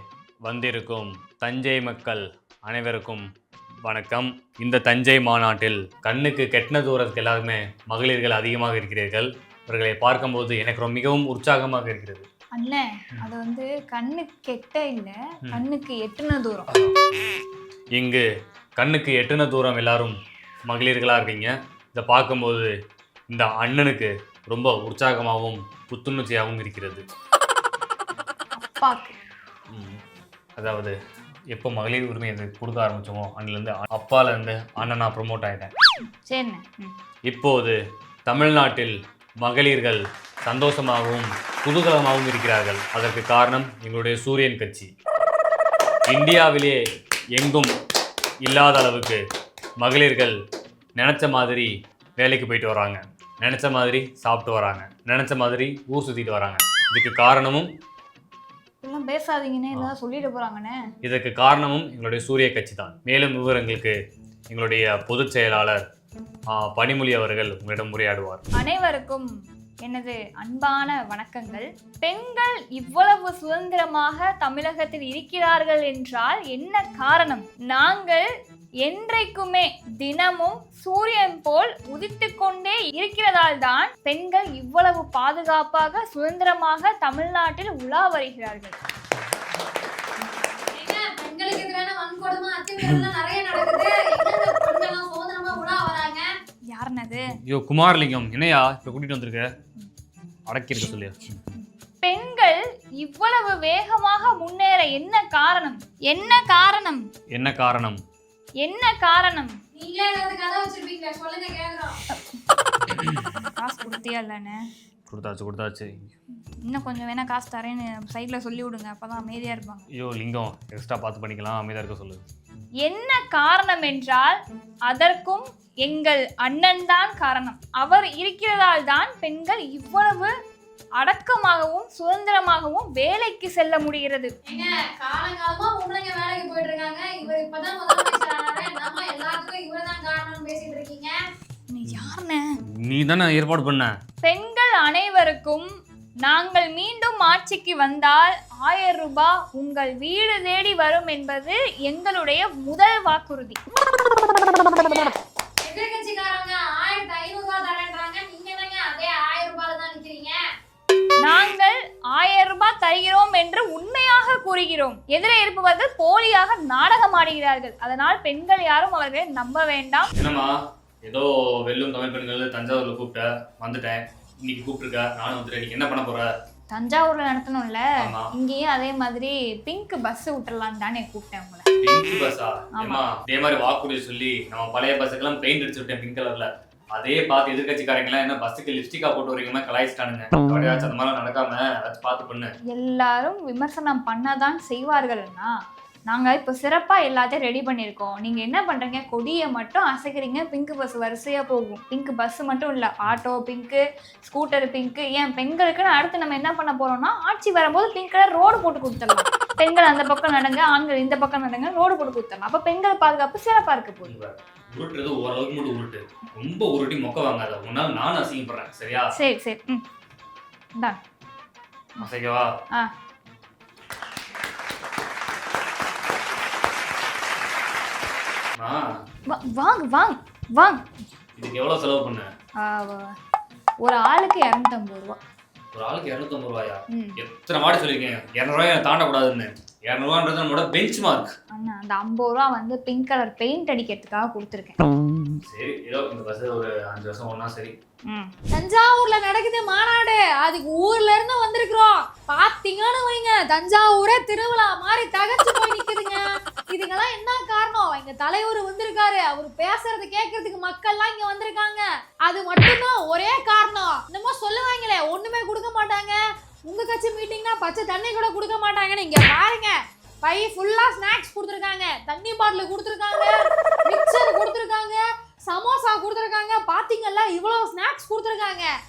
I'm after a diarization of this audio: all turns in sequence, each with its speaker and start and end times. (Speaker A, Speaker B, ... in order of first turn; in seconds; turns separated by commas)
Speaker A: 0.5-3.3, Speaker A: 3.9-12.3, Speaker B: 12.5-16.7, Speaker A: 16.7-17.4, Speaker A: 18.0-18.2, Speaker A: 18.8-20.2, Speaker A: 20.7-22.7, Speaker A: 23.3-27.0, Speaker B: 28.6-29.2, Speaker A: 29.7-30.0, Speaker A: 30.6-30.9, Speaker A: 31.5-35.7, Speaker B: 36.3-37.0, Speaker A: 37.3-44.9, Speaker A: 46.1-46.8, Speaker A: 47.4-47.7, Speaker A: 48.4-49.2, Speaker A: 49.8-50.4, Speaker A: 51.0-57.7, Speaker B: 58.8-60.8, Speaker A: 61.0-64.0, Speaker A: 64.5-65.8, Speaker A: 66.5-68.4, Speaker B: 68.6-69.3, Speaker B: 69.8-78.2, Speaker B: 78.8-88.8, Speaker C: 90.7-96.3, Speaker B: 96.7-97.3, Speaker A: 97.5-99.5, Speaker A: 100.5-101.4, Speaker B: 101.5-107.0, Speaker A: 107.3-108.0, Speaker B: 108.6-109.6, Speaker C: 109.7-112.0, Speaker B: 112.1-112.4, Speaker B: 113.4-114.6, Speaker A: 115.1-116.1, Speaker B: 116.7-119.9, Speaker A: 119.9-122.2, Speaker B: 122.8-130.3, Speaker B: 131.0-134.3, Speaker C: 134.5-141.1, Speaker B: 141.7-142.5, Speaker A: 141.9-142.1, Speaker A: 142.8-143.9, Speaker B: 144.2-145.7, Speaker B: 146.2-153.6, Speaker C: 154.6-160.4, Speaker B: 161.2-170.1, Speaker A: 170.2-170.6, Speaker A: 171.1-176.3, Speaker B: 176.7-181.7, Speaker A: 178.0-178.3, Speaker A: 181.8-192.5, Speaker B: 192.7-195.5, Speaker B: 196.1-214.2, Speaker A: 214.1-219.1, Speaker B: 219.2-219.8, Speaker A: 222.0-222.5, Speaker A: 228.6-228.8, Speaker B: 229.3-230.8, Speaker A: 231.4-232.3, Speaker B: 232.6-233.1, Speaker B: 233.8-235.2, Speaker A: 235.7-241.3, Speaker B: 241.5-244.8, Speaker A: 245.5-247.7, Speaker B: 248.1-248.3, Speaker C: 248.5-273.3, Speaker C: 273.9-278.7